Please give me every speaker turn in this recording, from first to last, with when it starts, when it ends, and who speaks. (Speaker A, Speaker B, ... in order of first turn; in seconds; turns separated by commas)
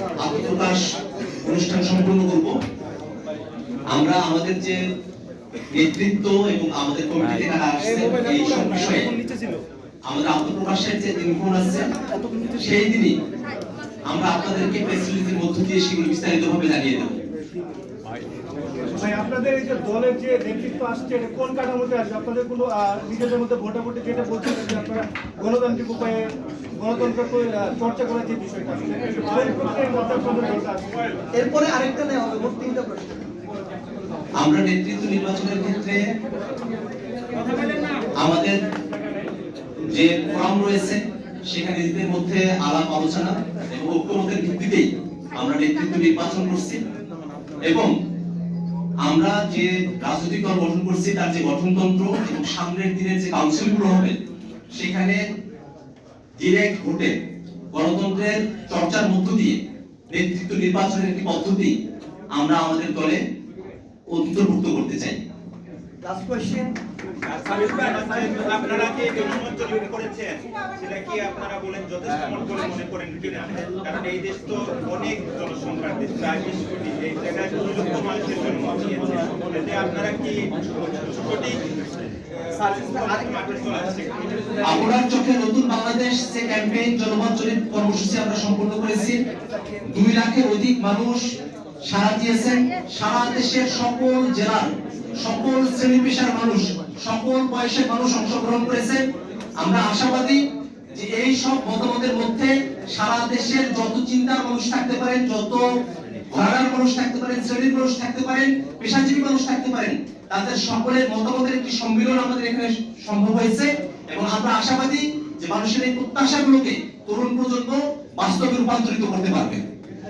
Speaker A: 0.2-2.5, Speaker A: 3.9-4.8, Speaker A: 5.7-9.1, Speaker A: 10.1-11.9, Speaker A: 12.5-13.2, Speaker A: 14.1-17.2, Speaker B: 18.9-31.0, Speaker C: 31.3-33.3, Speaker A: 34.4-36.0, Speaker A: 38.2-38.6, Speaker A: 39.9-46.8, Speaker A: 47.6-47.9, Speaker A: 49.0-54.2, Speaker A: 54.7-55.2, Speaker A: 56.4-57.1, Speaker A: 57.7-59.6, Speaker A: 60.1-61.7, Speaker A: 62.4-63.2, Speaker A: 64.1-65.2, Speaker C: 66.0-66.8, Speaker D: 67.3-81.6, Speaker D: 82.3-84.6, Speaker A: 84.6-89.2, Speaker A: 89.9-91.2, Speaker A: 91.9-94.7, Speaker A: 95.2-99.0, Speaker A: 99.6-100.4, Speaker A: 100.9-105.6, Speaker A: 106.3-119.6